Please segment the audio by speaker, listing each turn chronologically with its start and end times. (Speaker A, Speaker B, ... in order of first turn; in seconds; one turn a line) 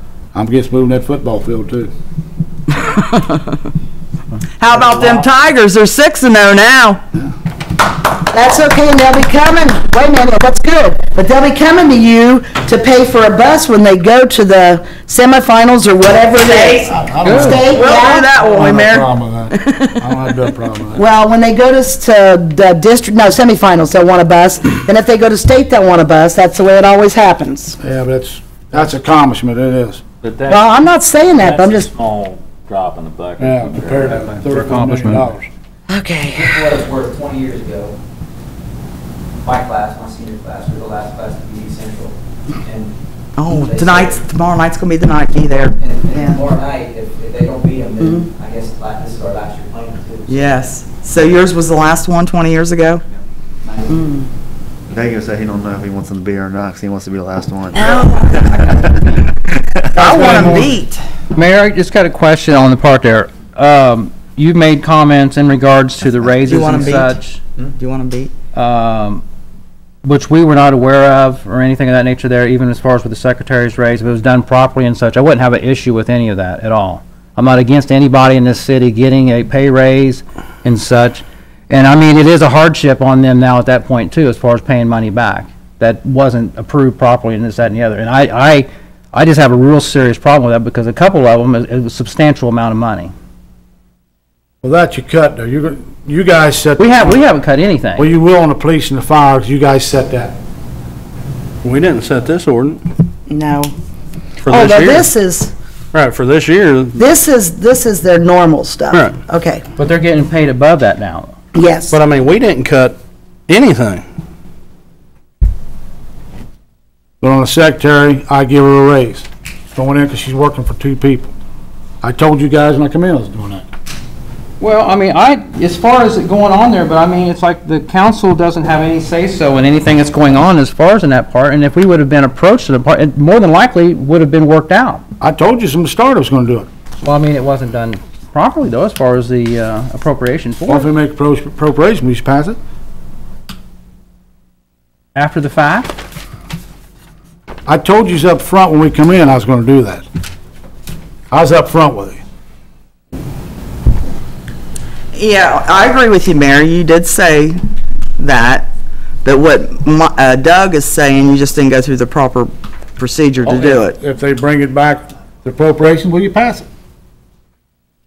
Speaker A: 0.3-1.9
Speaker B: 2.8-3.4
Speaker B: 4.6-7.0
Speaker A: 4.7-5.2
Speaker C: 8.3-18.3
Speaker B: 16.4-17.0
Speaker A: 16.9-21.0
Speaker D: 17.2-17.6
Speaker B: 17.6-20.0
Speaker C: 20.9-27.8
Speaker A: 27.8-30.0
Speaker E: 30.2-30.7
Speaker C: 30.5-31.9
Speaker E: 31.3-34.3
Speaker A: 33.4-35.5
Speaker D: 34.1-35.3
Speaker C: 35.9-36.7
Speaker F: 36.4-37.9
Speaker F: 39.4-42.1
Speaker D: 40.2-41.4
Speaker F: 42.6-42.9
Speaker B: 43.4-45.8
Speaker F: 45.8-50.5
Speaker C: 46.1-46.4
Speaker D: 46.8-47.1
Speaker C: 48.0-48.3
Speaker B: 50.3-53.0
Speaker F: 53.7-53.9
Speaker C: 53.9-54.3
Speaker G: 54.9-58.9
Speaker B: 57.7-58.7
Speaker B: 59.9-61.0
Speaker C: 60.0-60.6
Speaker D: 61.3-67.4
Speaker B: 66.4-68.3
Speaker D: 68.5-69.2
Speaker D: 70.0-93.1
Speaker A: 94.6-97.2
Speaker D: 96.8-98.1
Speaker A: 98.0-100.3
Speaker H: 101.6-102.8
Speaker C: 103.3-103.7
Speaker H: 104.4-105.1
Speaker C: 104.5-105.5
Speaker H: 105.9-107.0
Speaker C: 107.0-109.7
Speaker H: 108.9-109.2
Speaker D: 109.8-111.3
Speaker C: 111.5-112.0
Speaker H: 111.9-113.0
Speaker H: 113.5-114.0
Speaker A: 117.2-121.3
Speaker A: 122.0-123.7
Speaker D: 124.6-135.0
Speaker A: 135.2-136.7
Speaker D: 137.0-140.9
Speaker A: 140.7-142.6
Speaker D: 145.1-145.9
Speaker A: 147.7-150.1
Speaker A: 151.3-152.2
Speaker B: 155.1-157.6
Speaker B: 158.2-158.7
Speaker B: 159.2-164.0
Speaker A: 163.4-166.7